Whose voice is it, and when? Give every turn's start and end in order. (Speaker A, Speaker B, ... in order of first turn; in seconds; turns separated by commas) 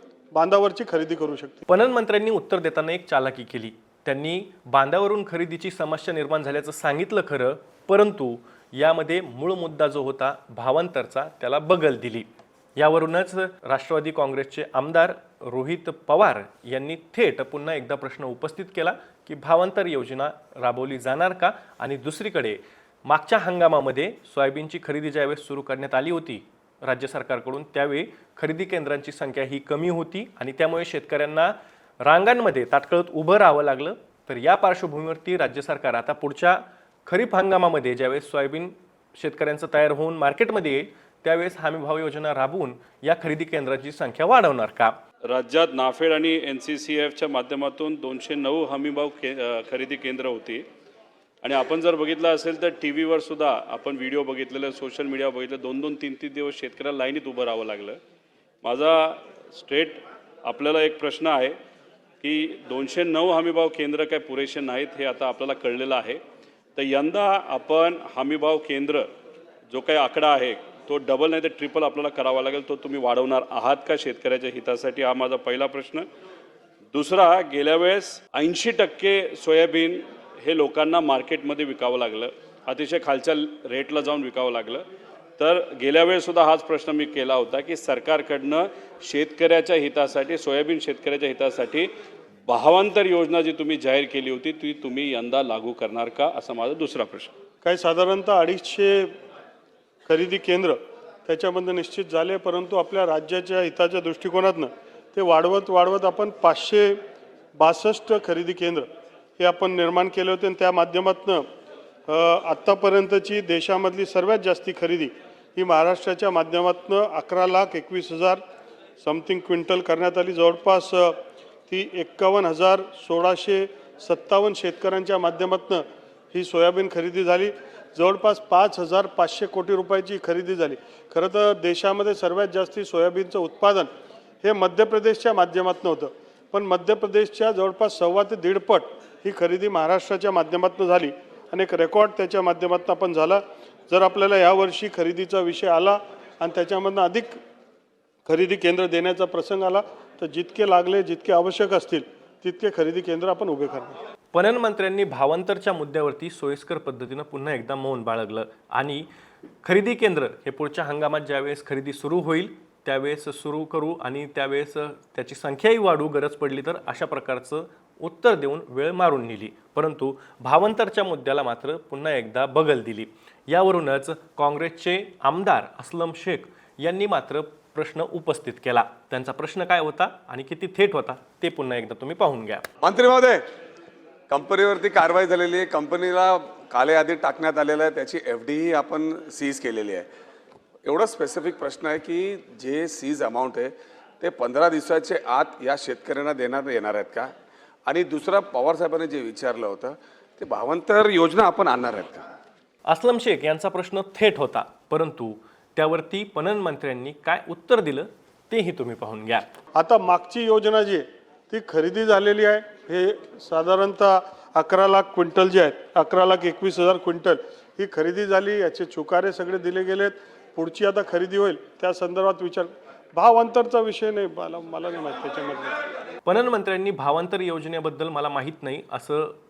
Speaker A: 0.3-1.6, Speaker B: 1.7-45.0, Speaker C: 45.2-50.6, Speaker C: 51.4-58.0, Speaker C: 58.6-61.6, Speaker C: 62.2-66.2, Speaker C: 66.8-69.1, Speaker C: 69.7-76.0, Speaker C: 76.9-84.8, Speaker C: 85.4-91.9, Speaker C: 92.5-97.3, Speaker A: 97.6-99.1, Speaker A: 100.1-107.0, Speaker A: 107.6-108.9, Speaker A: 109.4-111.4, Speaker A: 112.1-118.4, Speaker A: 119.0-121.2, Speaker A: 121.7-125.8, Speaker A: 126.3-133.9, Speaker A: 134.4-147.4, Speaker A: 148.3-154.0, Speaker B: 154.3-159.1, Speaker B: 159.6-182.7, Speaker D: 182.8-183.4, Speaker D: 184.3-190.1, Speaker D: 190.9-193.7, Speaker D: 194.2-197.3, Speaker D: 197.9-202.2, Speaker B: 202.8-209.5, Speaker A: 209.8-225.7, Speaker B: 226.2-229.3